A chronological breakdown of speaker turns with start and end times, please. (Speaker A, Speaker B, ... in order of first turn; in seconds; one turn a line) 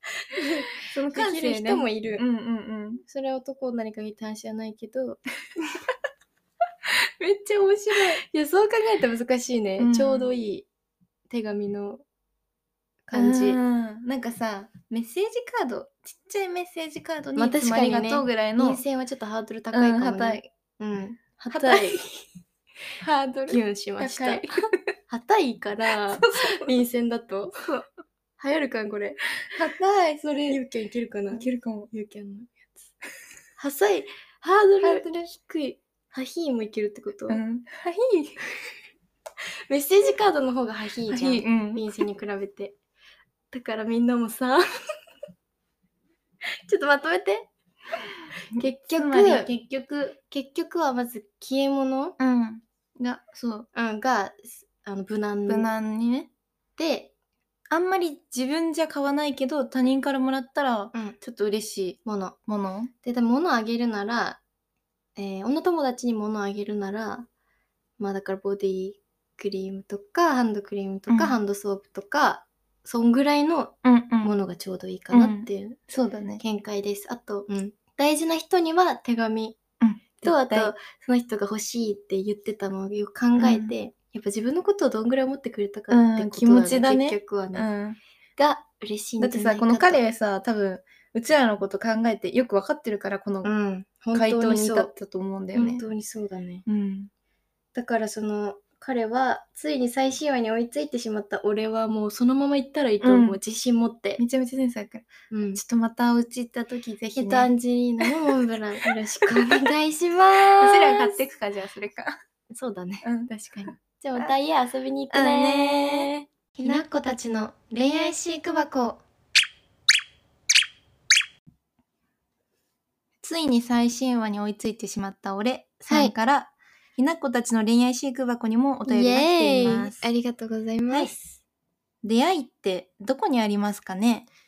Speaker A: 0.2-2.2
Speaker B: 0.8-3.0
Speaker A: 3.1-5.2
Speaker B: 6.9-8.2
Speaker A: 7.9-10.7
Speaker B: 9.8-10.3
Speaker A: 11.3-12.0
Speaker A: 13.1-13.6
Speaker B: 13.1-18.8
Speaker A: 17.4-22.1
Speaker B: 19.7-20.5
Speaker B: 21.5-22.0
Speaker B: 23.0-24.7
Speaker A: 23.5-24.5
Speaker A: 25.1-27.8
Speaker B: 26.2-26.7
Speaker A: 28.4-29.2
Speaker B: 29.5-30.6
Speaker A: 30.2-32.9
Speaker B: 31.3-31.9
Speaker A: 33.6-37.4
Speaker B: 34.8-35.3
Speaker B: 37.3-38.4
Speaker A: 39.7-42.7
Speaker B: 41.1-41.9
Speaker A: 43.5-44.6
Speaker A: 46.7-47.5
Speaker A: 48.5-49.5
Speaker B: 48.5-50.2
Speaker A: 50.3-52.2
Speaker B: 52.2-53.7
Speaker A: 53.7-55.7
Speaker B: 55.5-56.3
Speaker A: 56.8-57.1
Speaker B: 57.7-62.9
Speaker A: 62.0-62.4
Speaker A: 63.0-64.4
Speaker A: 65.2-67.3
Speaker A: 68.0-75.8
Speaker B: 71.1-71.4
Speaker B: 73.8-74.3
Speaker B: 75.1-76.4
Speaker A: 76.4-79.6
Speaker B: 79.8-80.7
Speaker A: 80.2-87.7
Speaker B: 83.4-83.7
Speaker B: 85.9-88.0
Speaker A: 88.4-90.0
Speaker B: 89.2-93.5
Speaker A: 93.4-94.9
Speaker B: 94.1-95.8
Speaker A: 95.5-96.7
Speaker B: 96.7-97.1
Speaker A: 97.7-104.2
Speaker B: 103.0-103.4
Speaker B: 104.2-108.3
Speaker A: 105.3-105.6
Speaker A: 107.1-111.2
Speaker B: 109.3-109.7
Speaker B: 110.6-112.2
Speaker A: 112.5-119.0
Speaker B: 113.0-113.3
Speaker B: 115.1-116.9
Speaker B: 123.2-130.1
Speaker A: 125.8-126.1
Speaker A: 128.8-131.4
Speaker B: 132.0-134.3